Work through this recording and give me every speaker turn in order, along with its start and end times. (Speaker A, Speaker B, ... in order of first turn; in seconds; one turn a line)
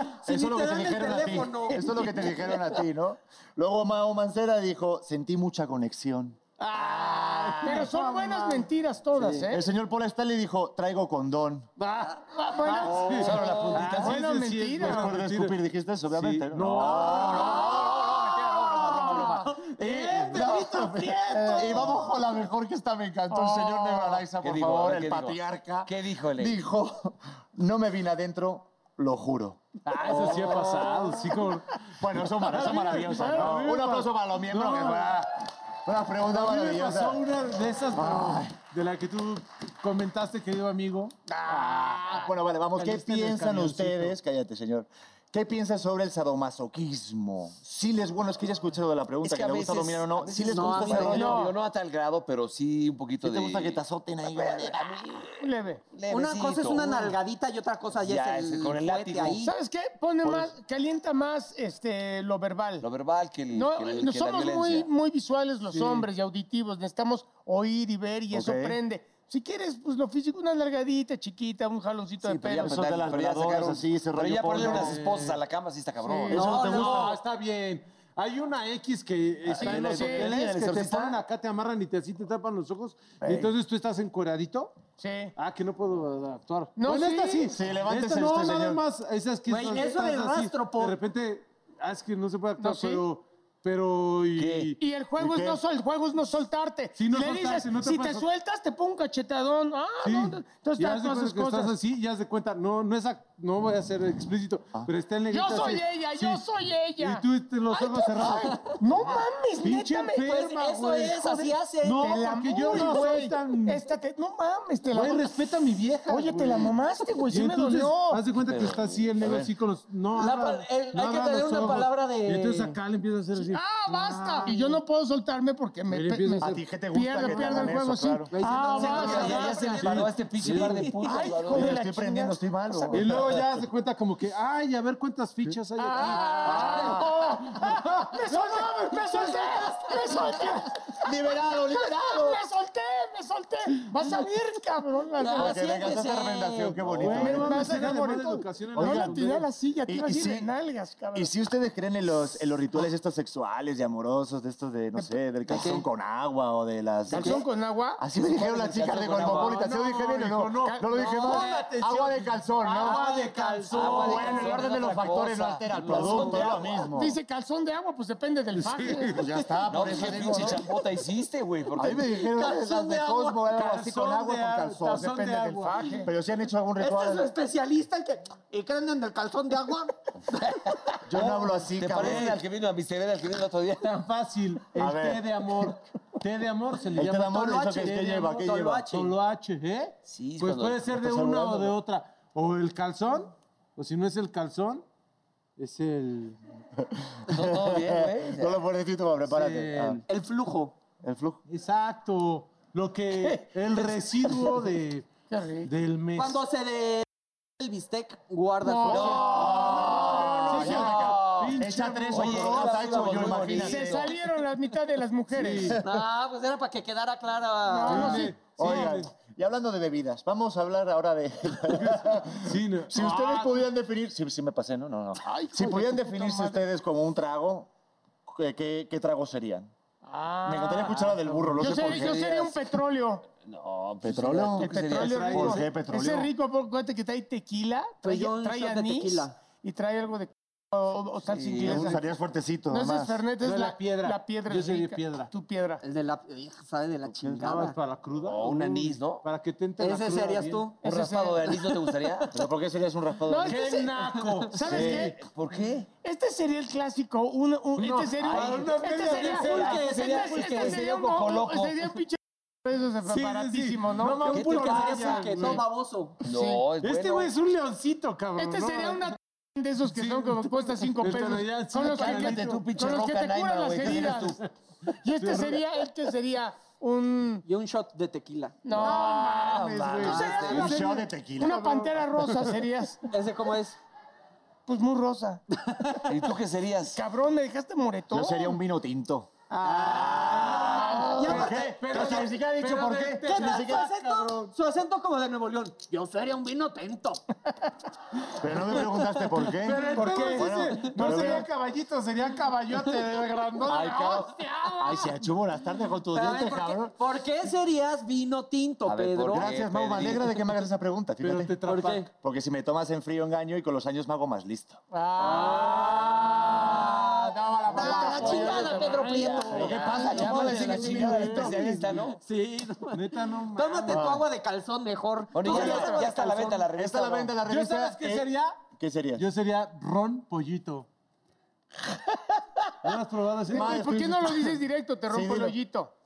Speaker A: 0.2-2.8
Speaker B: 0.2-6.4
Speaker C: 6.6-8.7
Speaker D: 6.8-7.9
Speaker E: 7.6-9.7
Speaker B: 9.5-11.7
Speaker C: 11.8-15.6
Speaker E: 12.3-15.2
Speaker D: 13.1-14.2
Speaker B: 14.8-18.8
Speaker D: 16.1-16.4
Speaker C: 16.3-17.5
Speaker E: 17.1-20.2
Speaker D: 17.2-19.5
Speaker A: 18.9-21.8
Speaker C: 19.8-22.0
Speaker B: 20.0-30.8
Speaker E: 23.3-24.3
Speaker D: 24.4-26.6
Speaker C: 29.9-31.8
Speaker B: 32.0-37.2
Speaker C: 32.4-35.2
Speaker E: 32.6-33.6
Speaker C: 36.3-41.2
Speaker B: 38.0-38.6
Speaker B: 41.4-51.5
Speaker E: 41.5-42.3
Speaker C: 42.8-44.2
Speaker D: 49.2-57.1
Speaker A: 50.5-51.3
Speaker E: 51.1-51.6
Speaker B: 53.2-54.9
Speaker E: 55.4-55.8
Speaker A: 56.1-59.5
Speaker D: 58.0-59.4
Speaker E: 59.4-62.9
Speaker D: 62.8-64.9
Speaker E: 63.5-72.8
Speaker C: 65.7-66.1
Speaker B: 68.3-68.8
Speaker D: 72.2-77.2
Speaker B: 72.5-75.0
Speaker C: 74.6-75.4
Speaker B: 76.2-77.0
Speaker A: 76.3-77.2
Speaker C: 76.4-84.7
Speaker D: 79.5-81.2
Speaker E: 79.6-80.3
Speaker B: 83.2-83.5
Speaker E: 85.0-85.3
Speaker C: 85.4-94.8
Speaker E: 86.8-87.5
Speaker B: 87.5-88.8
Speaker A: 89.5-91.0
Speaker E: 92.6-93.0
Speaker D: 94.4-94.7
Speaker E: 94.8-101.8
Speaker B: 95.2-95.6
Speaker C: 97.0-98.3
Speaker C: 100.0-106.4
Speaker E: 105.3-110.3
Speaker C: 107.0-113.9
Speaker A: 110.2-113.0
Speaker E: 112.0-115.3
Speaker C: 114.9-124.8
Speaker E: 116.1-118.2
Speaker D: 118.5-119.4
Speaker B: 119.2-119.5
Speaker A: 120.2-122.8
Speaker E: 123.5-129.8
Speaker C: 125.9-126.6
Speaker B: 126.4-128.3
Speaker C: 127.2-127.7
Speaker A: 128.3-130.8
Speaker C: 128.3-130.9
Speaker D: 128.8-131.8
Speaker B: 129.8-130.7
Speaker E: 131.0-133.0
Speaker B: 131.4-133.5
Speaker C: 132.9-140.6
Speaker E: 135.8-145.7
Speaker B: 136.6-137.0
Speaker B: 141.0-142.4
Speaker A: 145.2-147.0
Speaker B: 145.4-147.8
Speaker C: 146.9-149.5
Speaker E: 147.2-151.3
Speaker B: 148.8-149.3
Speaker B: 149.9-150.5
Speaker B: 151.1-157.5
Speaker A: 155.5-155.9
Speaker E: 157.1-158.0
Speaker B: 158.0-163.0
Speaker D: 158.2-159.6
Speaker C: 159.2-164.7
Speaker E: 160.6-161.5
Speaker A: 162.8-163.8
Speaker D: 163.7-166.9
Speaker B: 163.8-167.2
Speaker C: 165.9-166.4
Speaker E: 165.9-169.3
Speaker C: 168.6-170.1
Speaker B: 169.1-170.7
Speaker D: 169.7-172.2
Speaker B: 171.7-175.3
Speaker A: 172.1-173.6
Speaker C: 173.5-176.1
Speaker E: 175.0-176.1
Speaker B: 176.1-177.3
Speaker A: 176.8-180.8
Speaker B: 181.1-182.4
Speaker D: 181.2-183.9
Speaker C: 183.8-194.8
Speaker B: 184.7-185.3
Speaker B: 187.0-188.9
Speaker A: 187.3-189.1
Speaker D: 190.1-190.9
Speaker B: 190.9-191.8
Speaker C: 195.6-196.4
Speaker B: 197.3-200.0
Speaker D: 197.3-198.6
Speaker C: 199.2-200.0
Speaker A: 200.1-200.8
Speaker B: 201.0-201.4
Speaker C: 201.5-205.1
Speaker E: 205.3-205.7
Speaker C: 205.6-206.4
Speaker A: 206.2-207.1
Speaker A: 207.6-209.3
Speaker E: 208.6-211.0
Speaker D: 208.9-211.6
Speaker B: 209.1-214.0
Speaker C: 210.4-213.5
Speaker D: 212.1-214.1
Speaker E: 213.5-215.8
Speaker C: 215.3-215.8
Speaker A: 215.8-218.3
Speaker E: 217.7-218.9
Speaker C: 217.9-219.1
Speaker B: 218.0-227.7
Speaker C: 221.7-223.7
Speaker E: 225.2-226.6
Speaker B: 228.3-229.7
Speaker E: 230.0-233.3
Speaker B: 230.4-232.4
Speaker C: 231.3-231.9
Speaker D: 231.8-232.5
Speaker D: 233.4-235.6
Speaker B: 234.0-236.3
Speaker E: 234.6-242.0
Speaker C: 235.0-235.7
Speaker A: 238.0-239.3
Speaker D: 241.3-241.9
Speaker B: 241.6-243.2
Speaker E: 242.7-245.8
Speaker C: 243.4-245.3
Speaker A: 245.8-247.8
Speaker C: 247.2-250.7
Speaker D: 248.2-249.2
Speaker A: 249.8-250.8
Speaker E: 250.8-251.7
Speaker D: 250.8-252.3
Speaker A: 251.5-252.4
Speaker B: 252.3-253.8
Speaker E: 253.3-255.2
Speaker C: 253.5-255.1
Speaker B: 254.7-255.2
Speaker D: 255.2-255.9
Speaker E: 256.0-264.6
Speaker C: 257.8-259.9
Speaker D: 258.2-261.9
Speaker A: 259.0-260.8
Speaker C: 263.0-265.6
Speaker A: 264.3-266.2
Speaker D: 264.4-265.4
Speaker D: 266.2-267.3
Speaker E: 266.3-266.6
Speaker C: 266.8-269.1
Speaker E: 268.4-274.4
Speaker C: 269.9-272.7
Speaker D: 271.8-274.4
Speaker E: 274.9-277.4
Speaker C: 275.2-275.6
Speaker A: 277.4-278.6
Speaker E: 278.6-283.0
Speaker C: 278.8-282.5
Speaker D: 278.8-280.7
Speaker B: 280.4-281.7
Speaker A: 283.1-283.8
Speaker E: 284.7-285.4
Speaker D: 286.1-287.0
Speaker E: 286.9-288.6
Speaker B: 288.1-289.3
Speaker C: 289.5-293.8
Speaker A: 289.6-292.2
Speaker D: 289.9-290.6
Speaker E: 290.6-291.5
Speaker B: 291.2-294.2
Speaker A: 293.2-297.2
Speaker B: 298.4-301.5
Speaker A: 298.8-300.4
Speaker C: 299.6-303.9
Speaker E: 299.9-300.4
Speaker E: 303.7-305.1
Speaker B: 303.7-306.9
Speaker A: 306.1-309.5
Speaker D: 308.9-310.4
Speaker B: 309.3-311.6
Speaker C: 311.2-312.1
Speaker A: 311.7-312.1
Speaker B: 312.1-314.8
Speaker E: 314.9-321.5
Speaker C: 315.2-316.4
Speaker A: 315.2-320.6
Speaker B: 317.7-318.7
Speaker D: 318.1-322.2
Speaker B: 319.4-321.9
Speaker C: 319.9-321.6
Speaker A: 322.1-326.7
Speaker C: 322.9-324.1
Speaker B: 323.9-324.2
Speaker D: 325.3-327.4
Speaker E: 325.5-326.1
Speaker B: 325.5-325.9
Speaker B: 326.7-329.3
Speaker C: 327.4-328.6
Speaker C: 329.2-330.9
Speaker C: 332.8-334.3
Speaker E: 333.5-335.9
Speaker B: 333.5-334.6
Speaker B: 335.1-335.6